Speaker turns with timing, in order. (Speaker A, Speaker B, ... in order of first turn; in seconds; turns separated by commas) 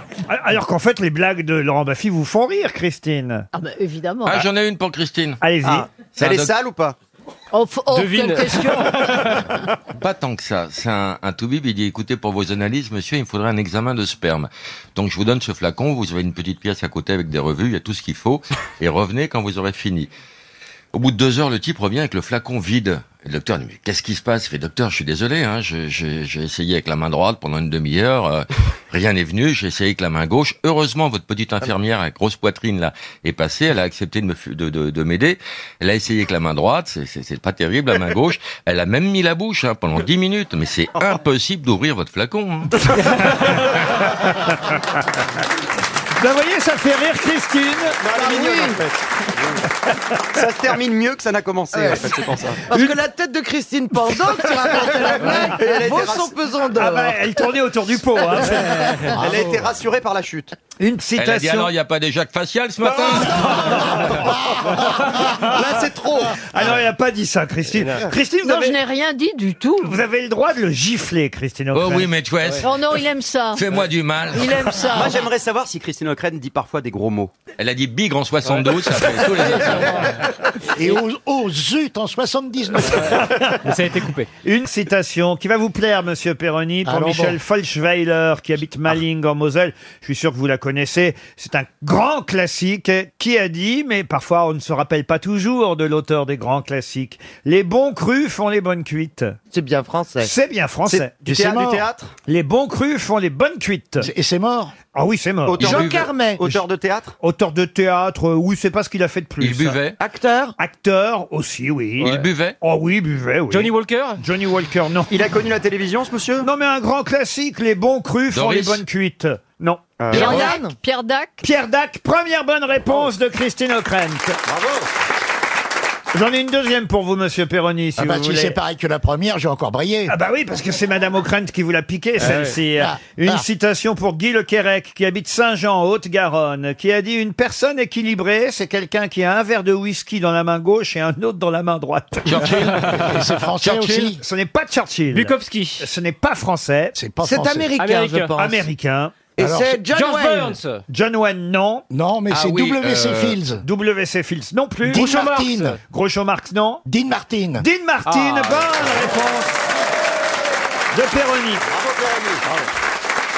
Speaker A: 0.3-3.5, Speaker B: 3.5-4.4, Speaker C: 4.2-5.4, Speaker A: 5.4-5.9, Speaker D: 5.6-7.0, Speaker C: 6.2-6.5, Speaker B: 7.5-9.2, Speaker E: 7.9-9.4, Speaker C: 10.0-20.1, Speaker C: 20.9-42.9, Speaker A: 46.2-48.7, Speaker D: 48.0-48.9, Speaker D: 50.3-52.6, Speaker F: 51.8-52.0, Speaker F: 52.7-57.1, Speaker D: 54.7-56.4, Speaker A: 56.8-59.0, Speaker D: 59.0-60.5, Speaker A: 60.8-61.7, Speaker C: 61.2-63.6, Speaker A: 63.4-64.1, Speaker A: 65.1-65.7, Speaker D: 65.4-66.3, Speaker A: 66.4-68.8, Speaker B: 68.4-70.0, Speaker A: 69.8-72.1, Speaker C: 71.7-72.7, Speaker B: 72.6-73.6, Speaker C: 73.5-74.7, Speaker B: 74.3-75.2, Speaker D: 74.9-77.3, Speaker C: 77.6-80.1, Speaker G: 80.8-83.2, Speaker E: 83.1-84.3, Speaker A: 83.1-83.6, Speaker A: 84.4-99.4, Speaker G: 86.8-87.4, Speaker F: 99.5-100.3, Speaker A: 100.2-104.1, Speaker D: 100.9-102.1, Speaker G: 104.0-104.7, Speaker A: 104.9-105.8, Speaker D: 105.5-107.2, Speaker C: 105.6-106.1, Speaker F: 105.6-106.6, Speaker A: 107.2-109.8, Speaker C: 109.4-110.0, Speaker F: 110.0-110.5, Speaker A: 110.6-115.1, Speaker C: 112.0-112.6, Speaker E: 113.5-114.2, Speaker D: 115.1-116.5, Speaker A: 116.4-120.5, Speaker C: 118.3-118.8, Speaker D: 120.0-120.6, Speaker B: 120.1-121.4, Speaker A: 121.4-124.4, Speaker A: 126.1-128.6, Speaker G: 128.0-130.1, Speaker A: 130.1-142.5, Speaker E: 132.2-132.6, Speaker G: 132.8-133.4, Speaker C: 142.2-142.9, Speaker E: 142.8-143.1, Speaker G: 142.9-144.2, Speaker A: 143.7-147.0, Speaker E: 145.1-145.9, Speaker G: 146.9-147.7, Speaker F: 147.2-148.7, Speaker E: 147.8-148.4, Speaker A: 148.4-149.2, Speaker F: 149.4-150.6, Speaker G: 149.4-149.8, Speaker E: 149.8-150.8, Speaker A: 150.9-151.8, Speaker G: 151.9-153.6, Speaker C: 152.3-152.9, Speaker A: 153.6-155.2, Speaker G: 154.9-155.8, Speaker E: 154.9-155.8, Speaker A: 155.9-156.8, Speaker G: 156.9-157.7, Speaker A: 157.6-159.7, Speaker E: 158.1-158.7, Speaker A: 160.9-161.7